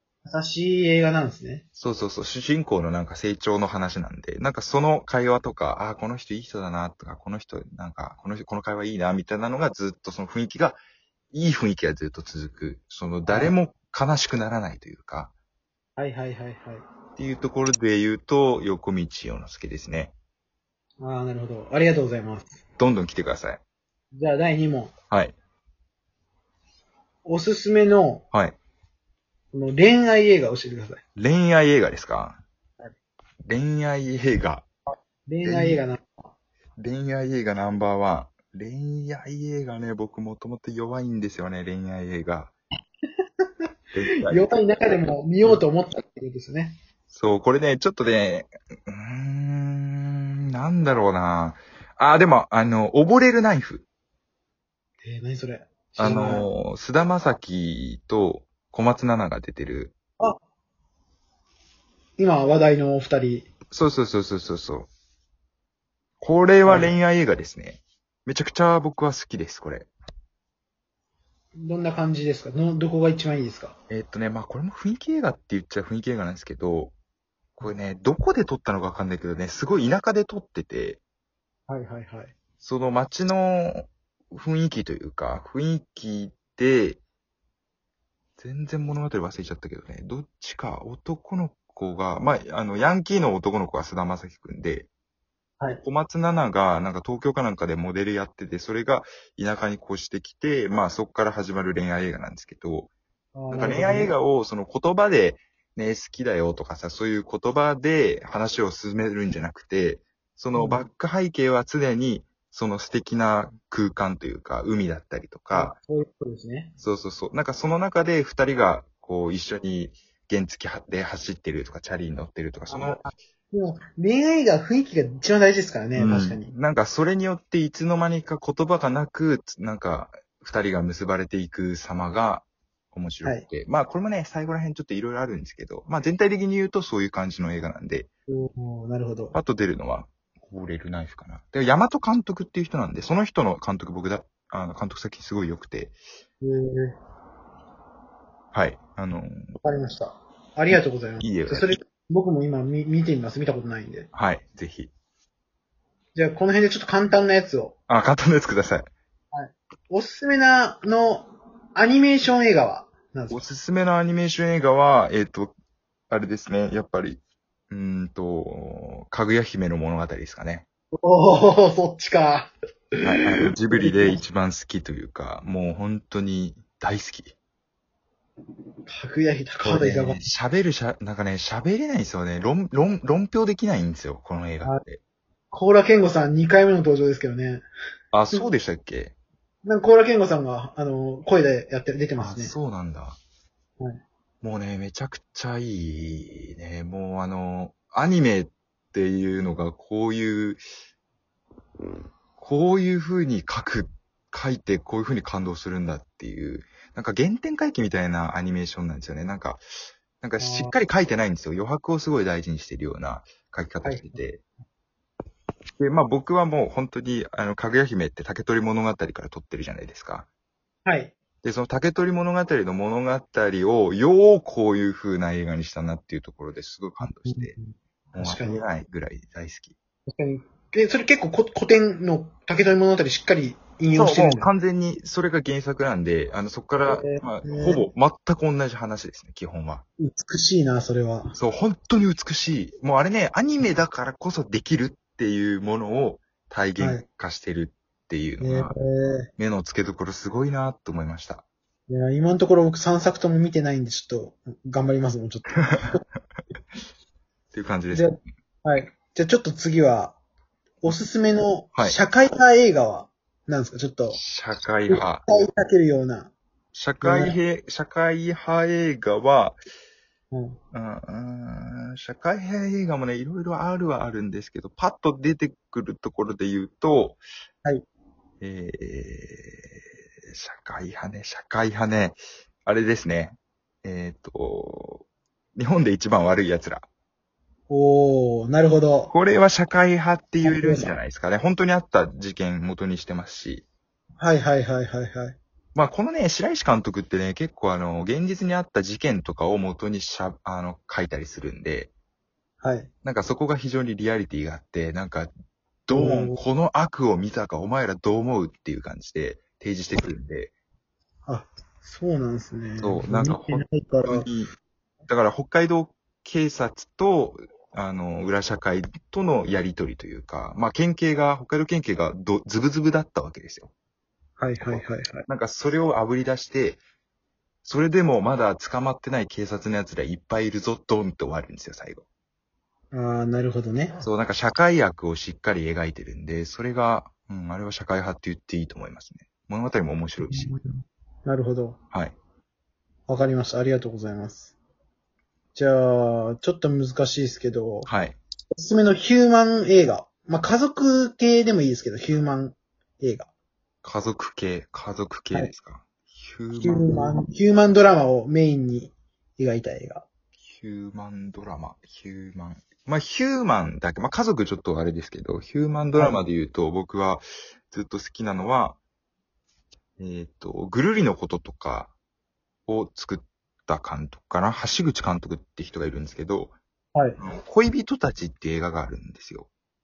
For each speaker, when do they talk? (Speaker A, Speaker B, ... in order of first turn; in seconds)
Speaker A: 0.2-1.6, 13.3-13.6, 16.0-16.9, 21.0-22.6, 24.1-24.9, 27.3-28.2, 29.5-31.0, 35.3-36.1, 44.2-46.8, 55.0-56.5, 62.2-63.5, 66.7-67.0, 71.6-73.8, 81.7-82.3, 103.3-104.1, 110.5-110.8, 115.5-116.7, 122.7-126.5, 138.3-139.3, 146.4-147.0, 149.6-154.1, 156.2-157.8, 159.3-163.5, 171.0-172.5, 173.7-174.2, 178.9-180.3, 185.5-187.6, 189.7-192.6, 210.4-210.8, 213.8-214.2, 220.9-221.2, 227.2-228.7, 230.1-234.5, 236.9-237.8, 240.0-241.3, 246.8-247.0, 248.4-249.3, 251.9-256.0, 257.9-260.2, 260.8-264.2, 264.9-266.3, 267.0-267.4, 270.3-270.6, 287.7-289.1, 290.4-290.9, 294.2-295.4, 302.6-302.9, 305.9-306.4, 311.3-314.3, 324.4-325.2, 332.9-334.0, 340.3-341.8, 343.1-344.5, 345.6-347.9, 348.6-353.3, 356.6-360.1, 366.0-366.2, 376.9-377.2
Speaker B: 1.8-10.8, 11.3-15.3, 17.2-20.1, 22.8-23.6, 31.2-32.4, 33.5-34.7, 35.4-35.8, 36.8-42.5, 43.9-44.5, 47.1-53.9, 56.0-60.0, 63.7-64.9, 66.2-69.9, 73.9-76.9, 77.6-81.0, 82.6-87.0, 88.4-94.9, 95.8-102.9, 103.5-115.7, 116.8-123.0, 126.0-138.1, 139.3-146.0, 148.5-149.6, 151.2-151.8, 154.1-154.9, 157.9-158.9, 163.3-165.5, 166.1-170.7, 173.0-177.3, 179.6-185.0, 188.1-189.1, 192.2-193.2, 194.4-200.6, 202.4-209.6, 210.2-214.4, 215.8-220.3, 221.4-227.6, 228.2-229.8, 233.9-239.8, 241.3-248.7, 249.4-251.4, 257.5-258.1, 264.1-265.2, 266.7-269.6, 270.7-277.2, 278.4-279.8, 280.3-286.9, 289.1-293.6, 295.8-301.9, 303.0-305.3, 305.9-310.5, 312.8-314.5, 315.1-323.7, 324.6-326.8, 327.6-332.0, 334.0-340.5, 347.9-348.2, 353.8-357.1, 360.4-368.8, 370.0-371.9, 372.7-376.5, 377.2-379.5